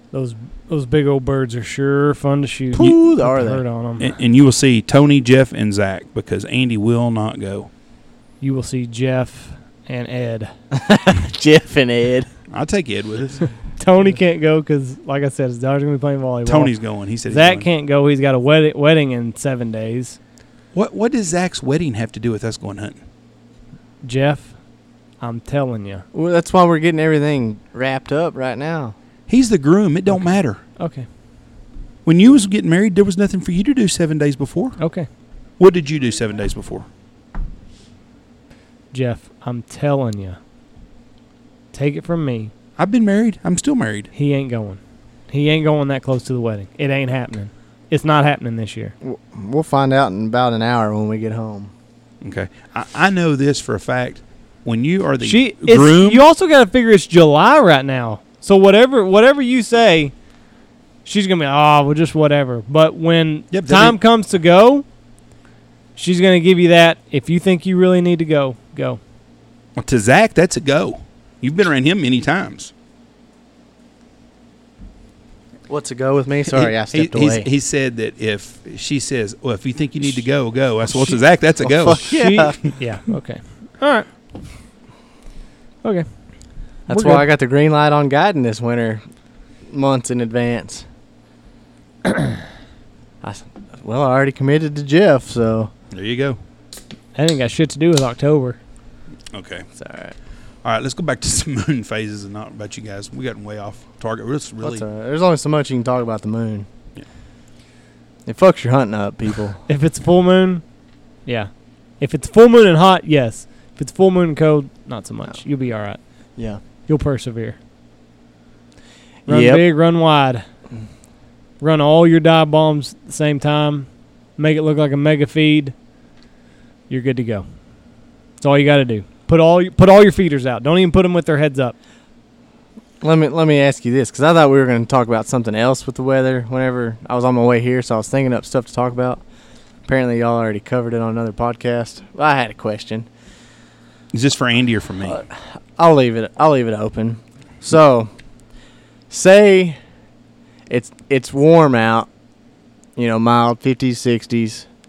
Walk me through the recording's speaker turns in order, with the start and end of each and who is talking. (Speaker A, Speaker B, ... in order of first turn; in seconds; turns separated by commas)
Speaker A: 0.1-4.1, Speaker B: 2.7-3.6, Speaker C: 4.0-7.7, Speaker A: 8.4-10.5, Speaker B: 10.7-12.3, Speaker C: 12.5-13.5, Speaker A: 13.8-16.7, Speaker C: 16.5-17.7, Speaker A: 17.3-20.2, Speaker C: 20.7-23.0, Speaker A: 24.0-24.6, Speaker A: 25.2-26.1, Speaker B: 26.1-28.9, Speaker C: 29.3-30.6, Speaker A: 30.8-31.1, Speaker C: 32.0-34.8, Speaker A: 34.8-35.1, Speaker C: 35.6-36.9, Speaker A: 38.9-40.4, Speaker A: 41.7-42.5, Speaker C: 42.8-44.1, Speaker A: 44.1-48.9, Speaker B: 49.0-51.7, Speaker C: 52.2-56.2, Speaker A: 55.2-60.1, Speaker A: 61.0-64.8, Speaker C: 63.5-64.0, Speaker A: 66.0-69.0, Speaker C: 69.8-72.7, Speaker B: 75.7-77.5, Speaker C: 76.5-82.1, Speaker B: 81.6-82.6, Speaker A: 82.0-84.1, Speaker B: 86.9-89.0, Speaker A: 86.9-87.2, Speaker B: 89.7-90.9, Speaker B: 93.2-95.7, Speaker C: 95.9-96.4, Speaker A: 97.2-98.6, Speaker C: 99.3-99.7, Speaker B: 99.8-100.2, Speaker C: 100.6-104.8, Speaker B: 104.6-106.7, Speaker B: 108.3-109.6, Speaker A: 109.7-110.6, Speaker A: 111.3-116.0, Speaker A: 116.9-117.6, Speaker B: 119.3-119.6, Speaker A: 119.3-120.5, Speaker A: 121.6-125.7, Speaker A: 126.9-127.5, Speaker A: 128.4-131.8, Speaker B: 133.0-139.2, Speaker B: 139.9-143.1, Speaker C: 144.1-145.2, Speaker B: 145.1-148.1, Speaker B: 149.1-149.8, Speaker B: 150.7-152.1, Speaker B: 153.0-154.7